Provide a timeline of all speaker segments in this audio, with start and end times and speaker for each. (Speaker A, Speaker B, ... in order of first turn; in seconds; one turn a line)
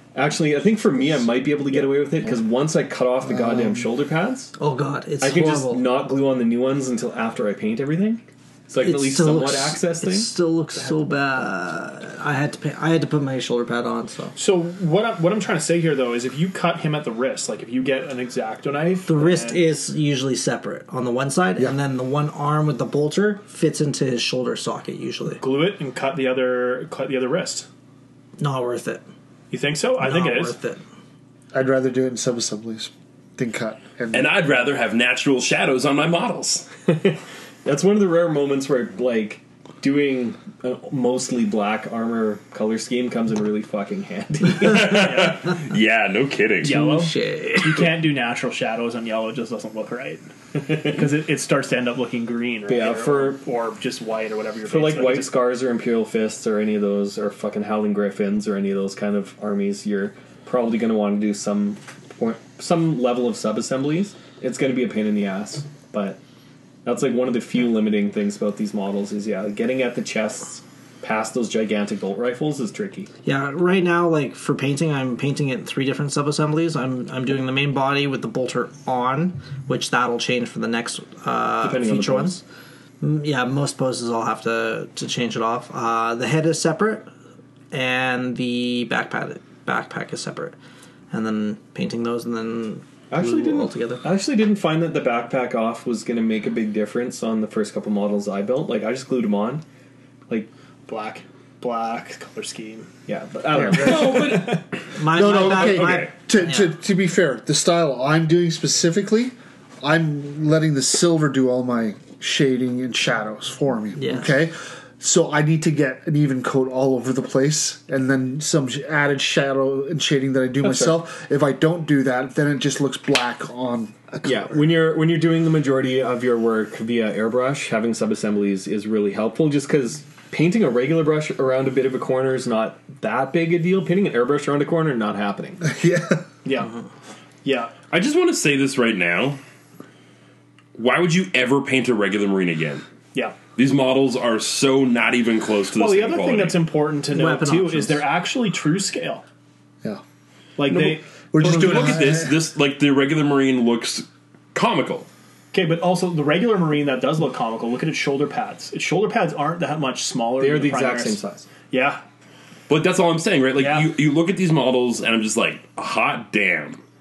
Speaker A: 0.1-4.5
Speaker B: 3.3-3.8
Speaker C: 4.6-5.9
Speaker A: 5.2-10.3
Speaker C: 8.8-14.3
Speaker D: 14.3-19.6
Speaker C: 19.1-25.4
Speaker D: 25.4-27.7
Speaker C: 28.4-29.0
Speaker D: 29.5-30.6
Speaker C: 30.0-30.8
Speaker B: 31.5-34.3
Speaker E: 34.1-36.7
Speaker A: 36.9-45.3
Speaker E: 44.6-46.8
Speaker D: 45.0-45.5
Speaker D: 46.6-55.3
Speaker C: 46.6-47.9
Speaker A: 50.7-51.0
Speaker A: 52.7-53.4
Speaker A: 54.6-66.2
Speaker A: 66.8-73.1
Speaker C: 73.2-82.4
Speaker A: 81.6-82.4
Speaker C: 83.0-87.1
Speaker C: 87.7-90.5
Speaker C: 91.1-94.0
Speaker A: 93.1-99.6
Speaker D: 100.9-102.9
Speaker A: 103.1-104.2
Speaker E: 103.7-106.1
Speaker D: 103.7-104.6
Speaker C: 104.9-106.8
Speaker B: 105.0-124.6
Speaker C: 114.0-114.3
Speaker A: 120.6-121.0
Speaker A: 124.2-135.6
Speaker B: 135.6-136.2
Speaker D: 136.4-136.8
Speaker D: 137.4-137.7
Speaker E: 137.9-139.4
Speaker E: 140.8-142.8
Speaker E: 143.6-146.6
Speaker D: 145.7-149.2
Speaker C: 147.1-148.0
Speaker D: 150.6-152.0
Speaker B: 150.7-152.4
Speaker E: 151.4-155.1
Speaker D: 155.5-162.0
Speaker A: 160.4-161.5
Speaker E: 162.7-166.8
Speaker D: 163.6-163.9